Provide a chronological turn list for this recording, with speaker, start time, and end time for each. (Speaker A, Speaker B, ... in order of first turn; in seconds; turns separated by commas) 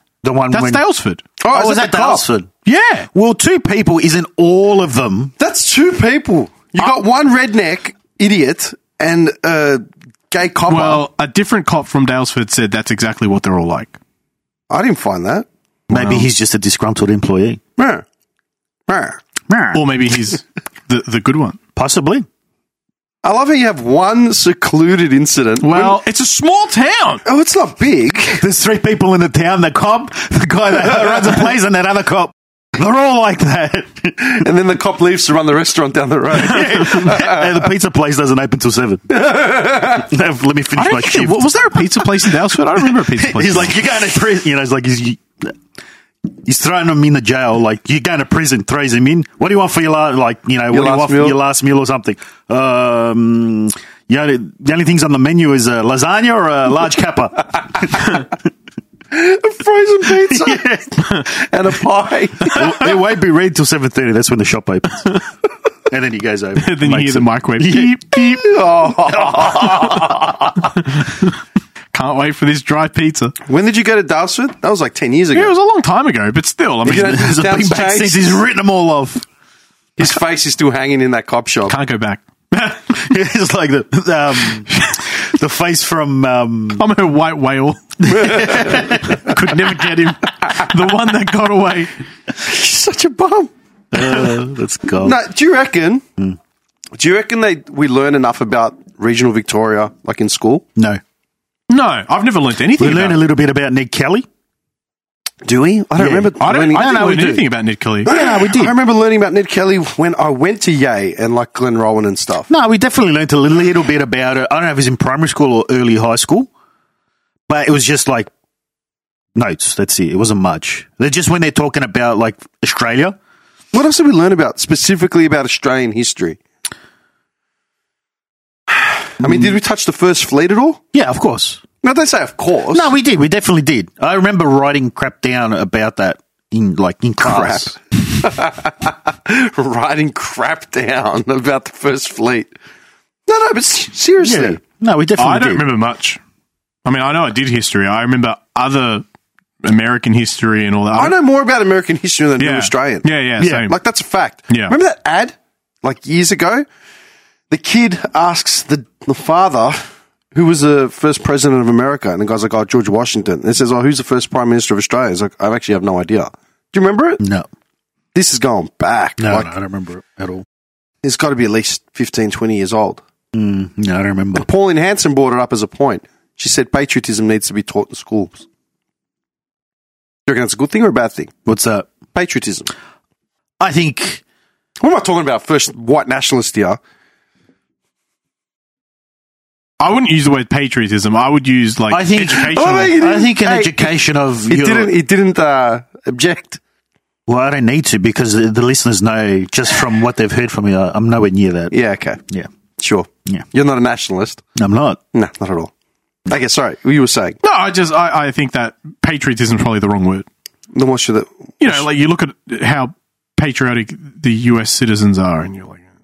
Speaker A: 0.2-0.8, Speaker B: 0.5-1.2, Speaker C: 1.4-2.2, Speaker A: 1.5-2.5, Speaker B: 2.6-3.1, Speaker A: 3.1-5.3, Speaker C: 5.4-11.1, Speaker B: 10.7-14.0, Speaker C: 14.7-15.5, Speaker A: 15.9-17.6, Speaker B: 15.9-16.3, Speaker C: 17.8-18.1, Speaker C: 18.9-19.2, Speaker A: 19.5-19.8, Speaker B: 19.7-21.6, Speaker A: 21.8-22.3, Speaker C: 23.2-26.0, Speaker B: 25.6-27.2, Speaker C: 27.2-28.4, Speaker A: 28.4-34.4, Speaker C: 34.2-37.7, Speaker A: 36.4-39.2, Speaker C: 39.1-40.1, Speaker A: 39.8-41.8, Speaker B: 40.8-43.7, Speaker A: 43.0-45.6, Speaker A: 46.3-58.2, Speaker C: 50.7-51.4, Speaker C: 59.1-62.9, Speaker A: 60.3-61.2, Speaker A: 62.5-65.2, Speaker A: 65.9-68.2, Speaker B: 66.6-68.5, Speaker C: 68.4-70.3, Speaker A: 69.2-70.7, Speaker B: 70.9-71.4, Speaker B: 71.9-73.3, Speaker C: 73.5-75.5, Speaker B: 75.3-77.2, Speaker C: 76.8-78.4, Speaker A: 76.9-79.2, Speaker C: 80.0-81.8, Speaker B: 81.7-82.2, Speaker A: 82.6-86.8, Speaker B: 86.8-91.9, Speaker A: 88.0-89.3, Speaker C: 88.1-89.2, Speaker C: 92.4-93.5, Speaker A: 93.9-95.2, Speaker C: 95.0-96.0, Speaker C: 97.0-100.6, Speaker A: 100.8-101.0, Speaker B: 101.7-103.2, Speaker A: 102.8-104.3, Speaker C: 105.4-107.1, Speaker A: 106.0-107.5, Speaker B: 106.4-108.1, Speaker C: 108.0-112.5, Speaker A: 108.1-108.7, Speaker A: 112.5-116.5, Speaker A: 117.5-118.3, Speaker A: 119.4-123.2, Speaker C: 123.7-126.4, Speaker C: 128.7-130.8, Speaker A: 130.9-131.6, Speaker C: 131.8-132.9, Speaker A: 132.7-137.8, Speaker C: 137.2-142.5, Speaker C: 143.3-144.6, Speaker A: 144.2-145.6, Speaker B: 145.2-146.2, Speaker B: 146.8-149.1, Speaker B: 149.6-151.2, Speaker C: 151.0-153.1, Speaker B: 152.4-153.8, Speaker A: 153.4-153.7, Speaker C: 153.6-156.7, Speaker B: 154.5-154.8, Speaker C: 157.5-167.2, Speaker A: 167.2-167.5, Speaker C: 168.1-169.5, Speaker A: 169.2-170.4, Speaker C: 171.0-173.0, Speaker A: 173.3-174.5, Speaker C: 174.4-178.4, Speaker C: 180.3-181.3, Speaker A: 181.5-181.9, Speaker C: 182.1-182.7, Speaker A: 183.6-184.2, Speaker C: 184.8-186.8, Speaker B: 189.8-193.0, Speaker A: 191.9-194.9, Speaker C: 192.5-193.9, Speaker C: 194.5-196.6, Speaker A: 197.3-201.8, Speaker C: 201.7-202.2, Speaker C: 202.8-204.4, Speaker A: 204.6-205.0, Speaker C: 205.1-205.7, Speaker C: 206.3-207.4, Speaker B: 207.4-210.3, Speaker C: 210.7-211.8, Speaker B: 211.6-215.8